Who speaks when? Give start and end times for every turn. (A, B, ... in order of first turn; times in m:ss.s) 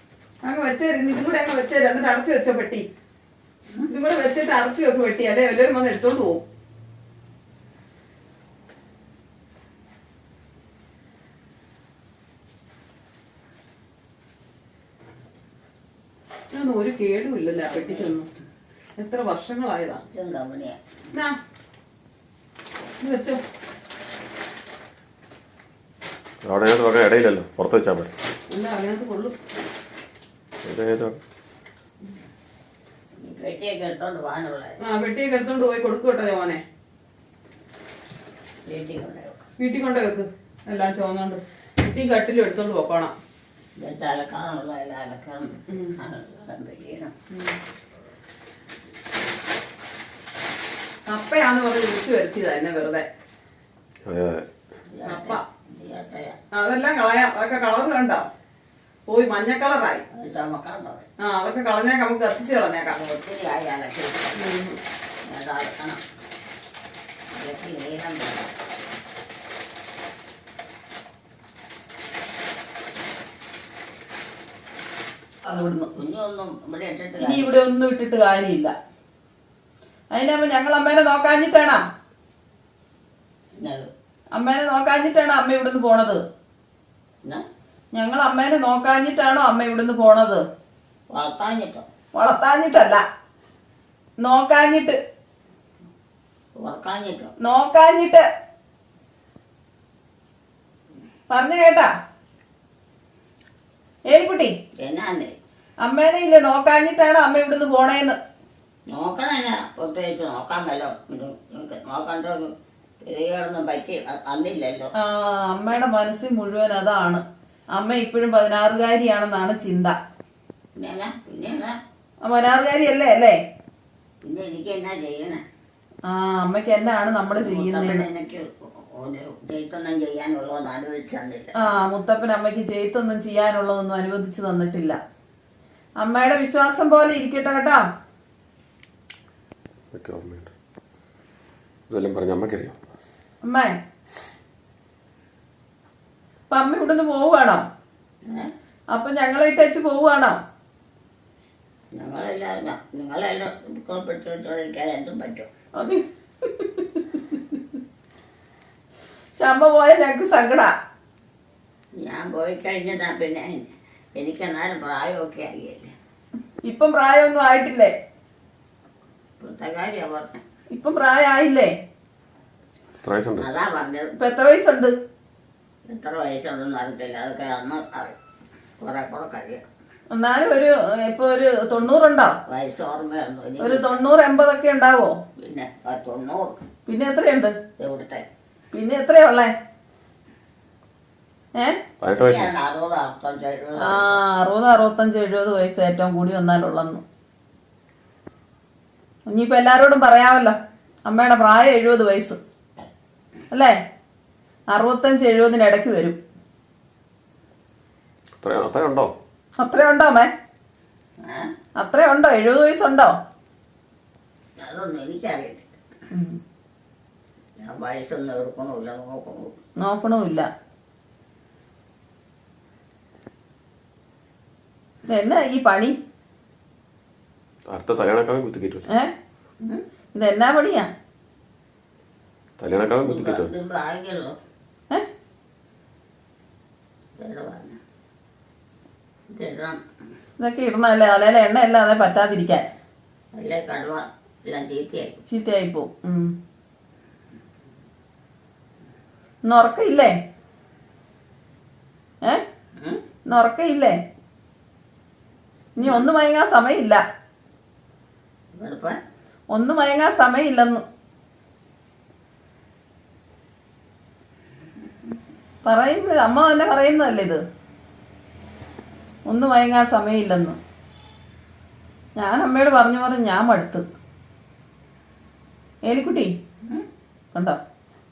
0:00.4-0:02.9 A
0:03.9-0:06.4 A
0:16.5-0:18.3 A
0:17.5-0:18.2 B
0:19.0-0:20.0 A
0:20.1-0:20.8 B
0:23.0-0:23.4 A
0:26.5-0:28.1 C
0:28.5-0:29.4 A
0:30.6-0:31.2 C
0:33.2-0:34.8 B
0:34.8-0:36.6 A
0:38.7-0:39.4 B
0:39.6-0:43.1 A
0:43.8-0:47.1 B
0:45.7-0:46.0 A
0:47.3-0:47.6 A
0:51.1-0:53.1 A
0:54.1-0:54.5 C
0:54.9-0:56.4 B
0:55.1-0:55.4 A
0:56.5-0:58.3 A
0:59.1-1:00.0 A
1:00.1-1:01.1 B
1:01.2-1:03.0 A
1:02.9-1:04.4 B
1:04.4-1:04.8 A
1:05.2-1:06.0 B
1:07.3-1:08.5 B
1:15.5-1:15.9 A
1:16.0-1:17.5 B
1:17.2-1:18.7 A
1:20.1-1:21.8 A
1:23.6-1:23.9 B
1:24.4-1:26.2 A
1:27.9-1:30.4 A
1:31.1-1:31.9 B
1:32.2-1:33.0 A
1:34.2-1:35.0 A
1:36.6-1:37.3 B
1:37.4-1:38.2 A
1:41.3-1:41.9 A
1:44.1-1:44.5 A
1:44.8-1:45.4 B
1:45.8-1:48.2 A
1:48.9-1:54.9 B
1:55.0-1:57.2 A
1:57.8-2:00.0 A
2:00.8-2:01.8 B
2:02.2-2:03.4 A
2:04.2-2:05.4 B
2:06.1-2:08.1 A
2:07.4-2:11.5 B
2:11.6-2:15.0 A
2:16.0-2:17.8 A
2:19.9-2:20.5 C
2:21.9-2:22.8 C
2:23.4-2:23.7 A
2:26.5-2:27.6 A
2:28.9-2:30.4 A
2:31.9-2:35.5 B
2:35.8-2:36.0 A
2:36.6-2:37.6 A
2:39.4-2:40.7 A
2:42.0-2:45.9 B
2:46.6-2:47.9 A
2:49.4-2:50.4 B
2:50.7-2:51.7 A
2:53.0-2:53.5 C
2:53.4-2:54.2 B
2:54.2-2:54.9 A
2:55.9-2:58.2 B
2:58.8-2:59.6 B
3:00.1-3:02.4 A
3:02.4-3:04.0 B
3:03.6-3:05.2 A
3:05.4-3:06.6 B
3:06.9-3:07.6 A
3:07.8-3:08.2 B
3:08.7-3:09.5 A
3:12.0-3:12.5 C
3:12.1-3:14.2 B
3:13.8-3:17.0 A
3:19.3-3:22.4 A
3:24.7-3:26.2 A
3:28.4-3:29.1 C
3:29.6-3:30.3 A
3:31.2-3:31.5 B
3:31.8-3:33.2 A
3:34.6-3:35.7 B
3:36.1-3:36.4 A
3:37.6-3:39.6 B
3:39.8-3:40.5 A
3:45.1-3:46.0 A
3:47.7-3:48.9 C
3:50.1-3:50.9 A
3:52.6-3:53.5 C
3:53.0-3:54.4 B
3:57.2-3:57.8 B
3:59.3-3:59.8 B
4:00.4-4:02.7 A
4:03.4-4:05.2 B
4:05.3-4:06.3 A
4:09.5-4:10.1 A
4:13.3-4:14.0 A
4:15.8-4:17.0 A
4:15.8-4:16.1 B
4:18.5-4:19.0 B
4:19.5-4:20.8 A
4:25.6-4:27.4 A
4:29.3-4:30.6 A
4:32.2-4:33.8 A
4:35.9-4:36.3 A
4:37.3-4:37.6 A